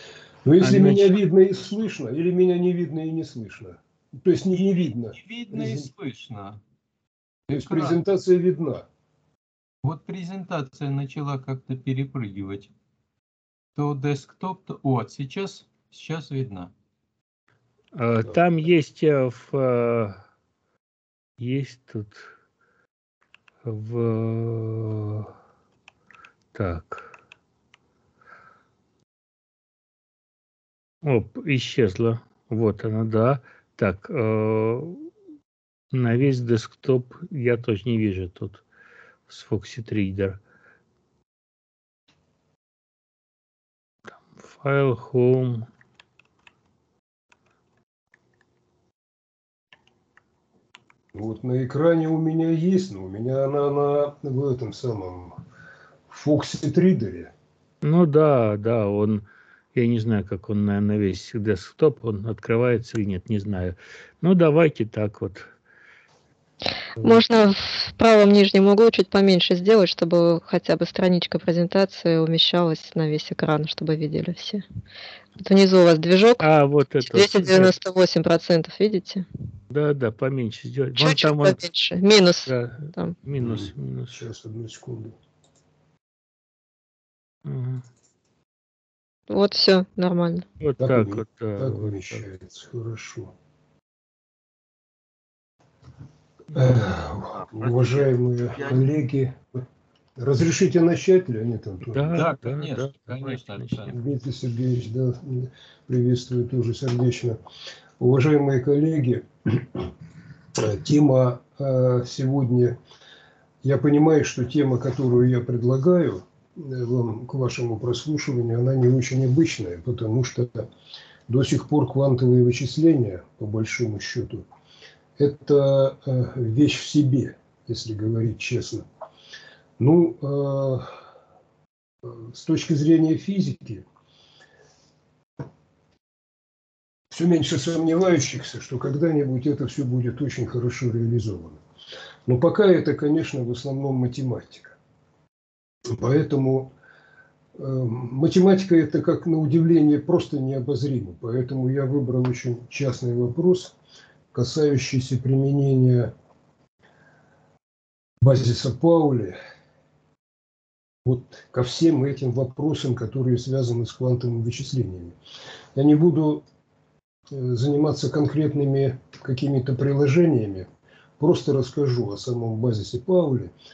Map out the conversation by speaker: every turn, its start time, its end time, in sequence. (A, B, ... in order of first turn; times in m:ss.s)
0:00.4-0:05.8 A
0:00.6-0:01.2 B
0:05.1-0:06.6 C
0:07.5-0:08.8 A
0:07.6-0:08.0 C
0:09.8-0:12.7 C
0:13.8-0:16.7 C
0:17.9-0:20.2 B
0:21.4-0:22.3 B
0:23.6-0:25.3 B
0:26.5-0:27.1 B
0:31.0-0:35.1 B
0:35.9-0:38.6 B
0:39.3-0:40.4 B
0:44.4-0:45.7 B
0:51.1-0:55.4 A
0:56.1-0:57.3 A
0:57.8-1:05.5 B
1:07.0-1:14.6 D
1:15.4-1:16.5 D
1:16.4-1:17.7 B
1:17.0-1:19.2 D
1:19.7-1:21.6 B
1:21.0-1:23.1 D
1:22.4-1:24.2 B
1:23.4-1:25.2 A
1:27.4-1:27.8 B
1:29.3-1:30.4 D
1:30.6-1:32.2 B
1:30.8-1:33.3 A
1:36.5-1:39.4 A
1:40.2-1:42.3 A
1:41.9-1:43.8 B
1:42.1-1:44.0 C
1:43.9-1:47.4 A
1:48.0-1:49.9 A
1:50.6-1:52.8 A
1:53.6-2:00.7 A
2:01.3-2:04.4 A
2:05.2-2:08.8 A
2:09.8-2:11.0 A
2:12.0-2:13.8 A
2:17.1-2:21.6 A
2:22.2-2:24.8 A
2:25.9-2:26.7 A
2:27.5-2:33.7 A
2:34.3-2:36.1 A
2:38.2-2:39.4 A
2:41.0-2:45.2 A
2:45.7-2:46.4 A
2:47.3-2:50.7 A
2:51.2-2:53.5 A